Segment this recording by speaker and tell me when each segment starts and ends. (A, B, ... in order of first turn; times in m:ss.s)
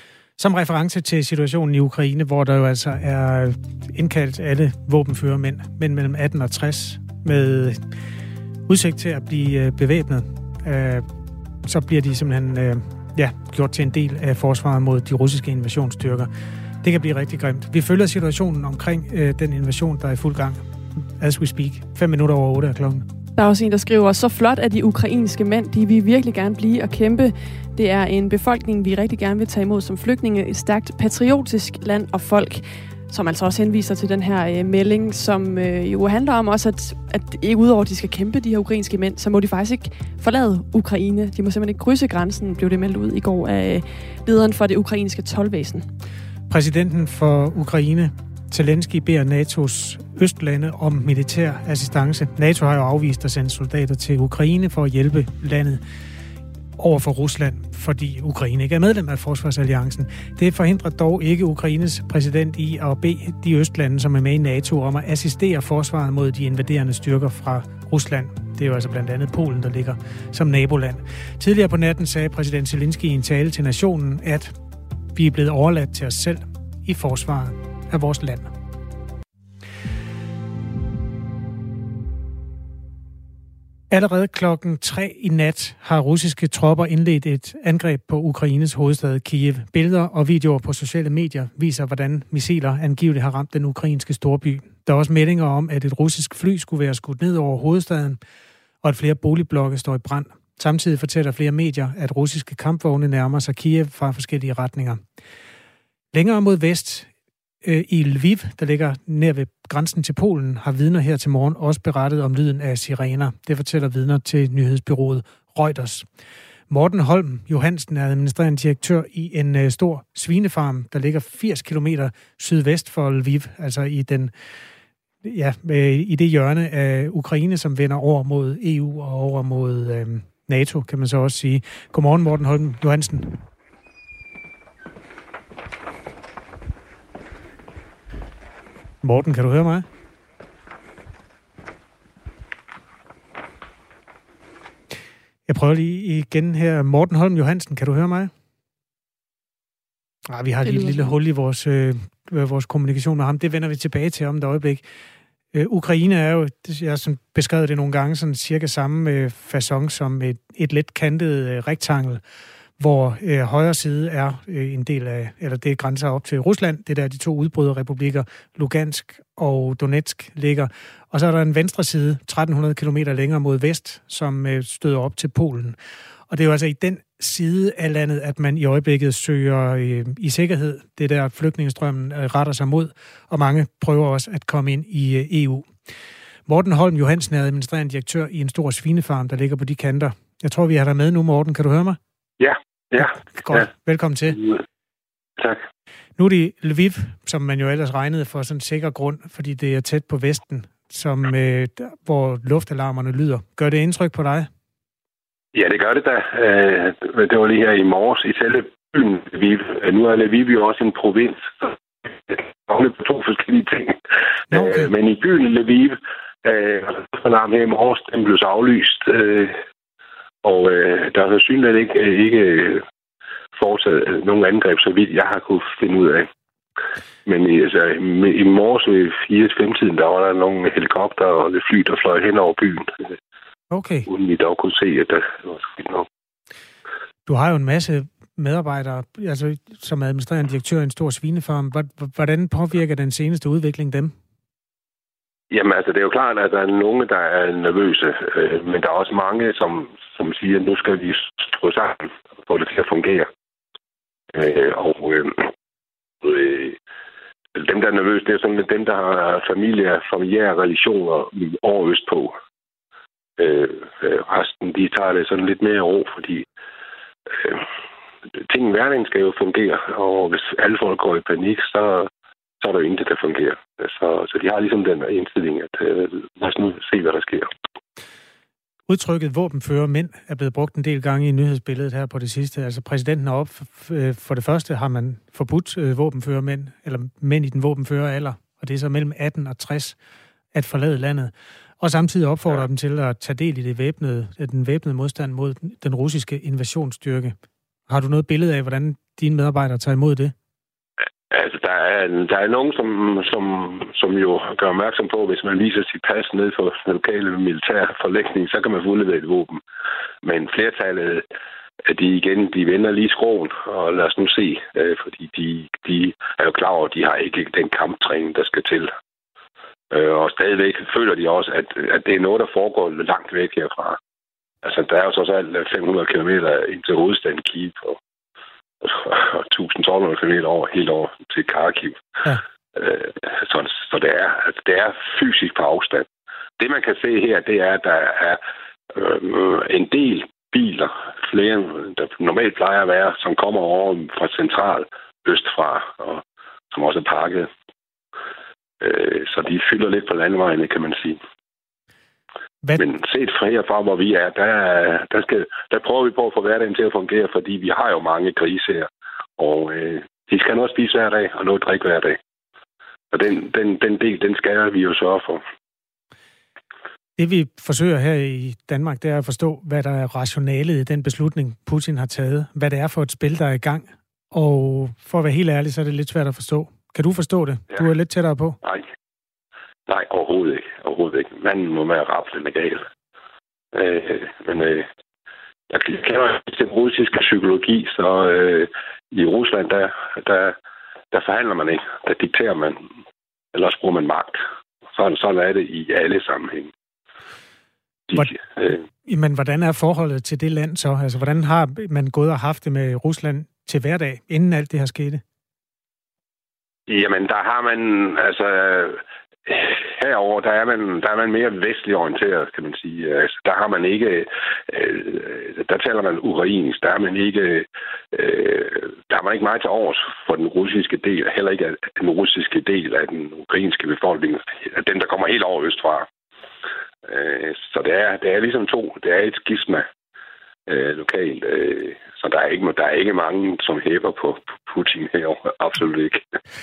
0:00.4-0:07.8 A
0:08.7-0:11.1 A
0:11.7-0:16.3 A
0:16.8-0:20.6 A
0:21.2-0:23.0 A
0:23.4-0:45.9 B
0:46.5-0:55.8 A
0:56.8-1:14.5 A
1:15.1-1:18.5 A
1:23.9-1:38.2 A
1:38.8-1:45.0 A
1:46.1-1:47.1 A
1:47.6-1:56.1 A
1:56.7-2:04.3 A
2:05.2-2:13.4 A
2:19.0-2:19.9 A
2:25.5-2:28.3 A
2:30.3-2:34.8 A
2:30.6-2:31.1 B
2:35.5-2:42.2 A
2:42.8-2:55.8 A
2:56.3-3:05.7 A
3:06.4-3:12.0 A
3:12.4-3:13.7 C
3:13.0-3:14.4 A
3:14.3-3:14.6 C
3:16.2-3:24.5 A
3:25.5-3:31.7 C
3:32.3-3:34.0 C
3:34.5-3:39.5 C
3:34.5-3:34.9 A
3:40.4-3:42.8 C
3:43.6-3:46.3 C
3:47.2-3:53.1 C
3:53.7-3:54.1 A
3:54.1-3:56.0 C
3:57.2-4:04.1 A
4:05.5-4:13.3 C
4:14.3-4:15.4 C
4:16.2-4:16.8 C
4:17.6-4:22.3 C
4:23.4-4:26.4 C
4:27.3-4:27.6 C
4:28.3-4:32.1 C
4:32.6-4:37.5 C
4:38.9-4:50.0 A
4:50.5-4:57.4 A
4:57.9-5:00.3 A
5:01.3-5:09.6 C
5:10.2-5:11.3 C
5:11.9-5:18.9 C
5:19.9-5:24.0 C
5:24.6-5:28.0 C
5:28.8-5:32.0 C
5:32.8-5:36.1 C
5:36.6-5:38.4 C
5:38.9-5:47.5 C
5:48.8-5:51.2 C
5:52.8-6:02.2 C
6:03.1-6:05.4 C
6:07.2-6:18.6 A
6:19.9-6:22.8 C
6:23.7-6:24.8 C
6:25.7-6:30.6 C
6:31.1-6:32.8 C
6:33.5-6:34.4 C
6:34.9-6:36.7 C
6:38.1-6:38.8 C
6:39.0-6:45.2 A
6:46.9-7:06.1 C
7:07.0-7:09.8 C
7:10.7-7:16.2 C